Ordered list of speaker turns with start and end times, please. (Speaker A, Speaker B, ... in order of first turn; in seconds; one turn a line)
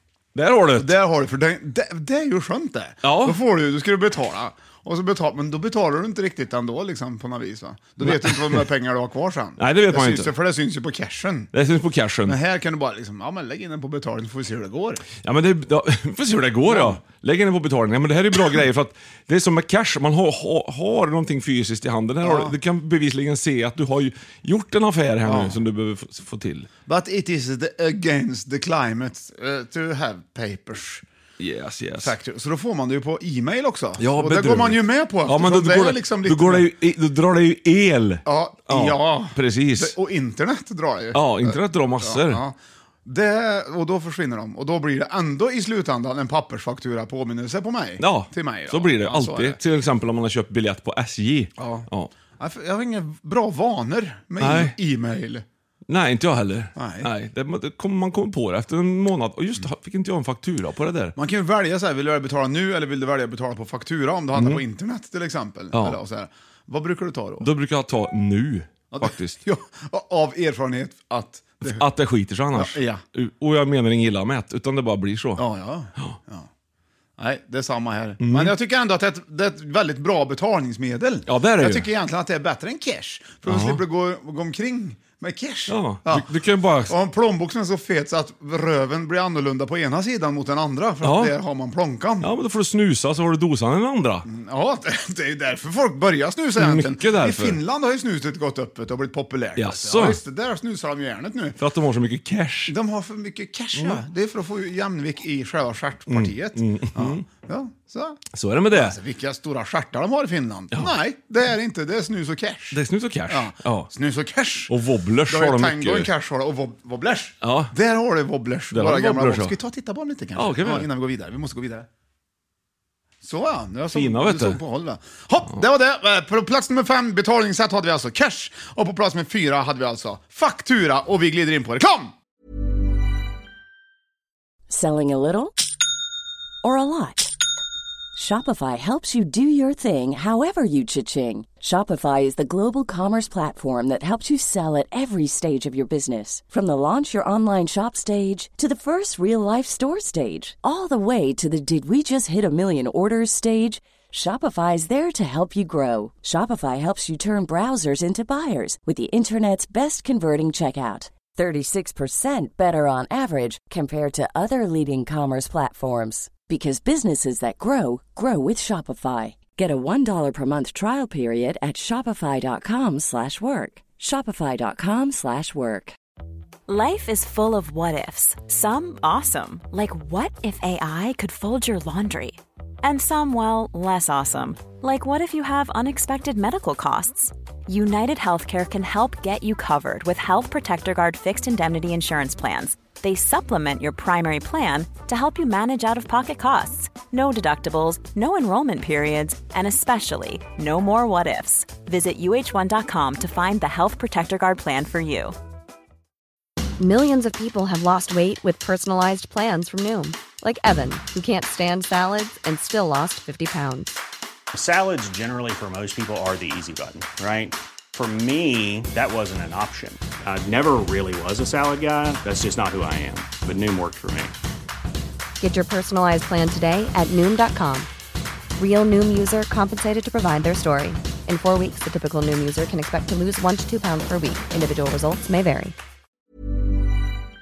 Speaker A: 0.3-0.9
Speaker B: 0.8-11.5
Speaker A: 3.0-3.4
Speaker A: 8.0-8.6
Speaker A: 9.6-10.3
Speaker A: 11.5-12.4
Speaker B: 12.2-15.0
Speaker A: 15.2-26.7
Speaker B: 16.6-17.0
Speaker B: 22.2-22.6
Speaker B: 25.2-25.6
Speaker B: 26.9-31.0
Speaker A: 31.4-32.1
Speaker B: 32.0-36.7
Speaker A: 34.0-39.9
Speaker B: 38.2-49.6
Speaker A: 41.1-42.4
Speaker A: 48.0-52.1
Speaker B: 51.6-55.4
Speaker A: 54.4-54.8
Speaker A: 55.9-61.1
Speaker B: 56.8-57.1
Speaker B: 61.1-67.5
Speaker A: 64.3-64.6
Speaker A: 65.7-66.0
Speaker A: 67.4-69.4
Speaker B: 68.9-71.8
Speaker A: 71.6-75.4
Speaker B: 72.5-73.0
Speaker B: 75.4-76.5
Speaker B: 77.2-86.3
Speaker A: 78.2-78.5
Speaker A: 81.3-81.9
Speaker A: 83.5-83.8
Speaker A: 85.7-86.9
Speaker B: 86.9-92.3
Speaker A: 91.0-91.3
Speaker A: 92.2-94.2
Speaker B: 94.2-101.6
Speaker A: 96.6-97.6
Speaker A: 99.6-100.2
Speaker A: 101.6-102.7
Speaker B: 102.7-108.2
Speaker A: 103.8-104.0
Speaker A: 106.1-107.2
Speaker A: 108.3-109.0
Speaker B: 108.7-114.7
Speaker A: 112.7-113.9
Speaker A: 114.7-116.1
Speaker B: 115.3-121.9
Speaker A: 117.4-117.7
Speaker A: 118.7-119.5
Speaker A: 120.3-120.9
Speaker B: 123.2-132.1
Speaker A: 123.9-124.6
Speaker C: 134.7-135.5
Speaker C: 136.6-137.3
Speaker C: 138.1-175.9
Speaker D: 176.7-205.3
Speaker E: 206.8-214.0
Speaker F: 214.5-224.3
Speaker E: 225.4-227.9
Speaker E: 228.6-235.7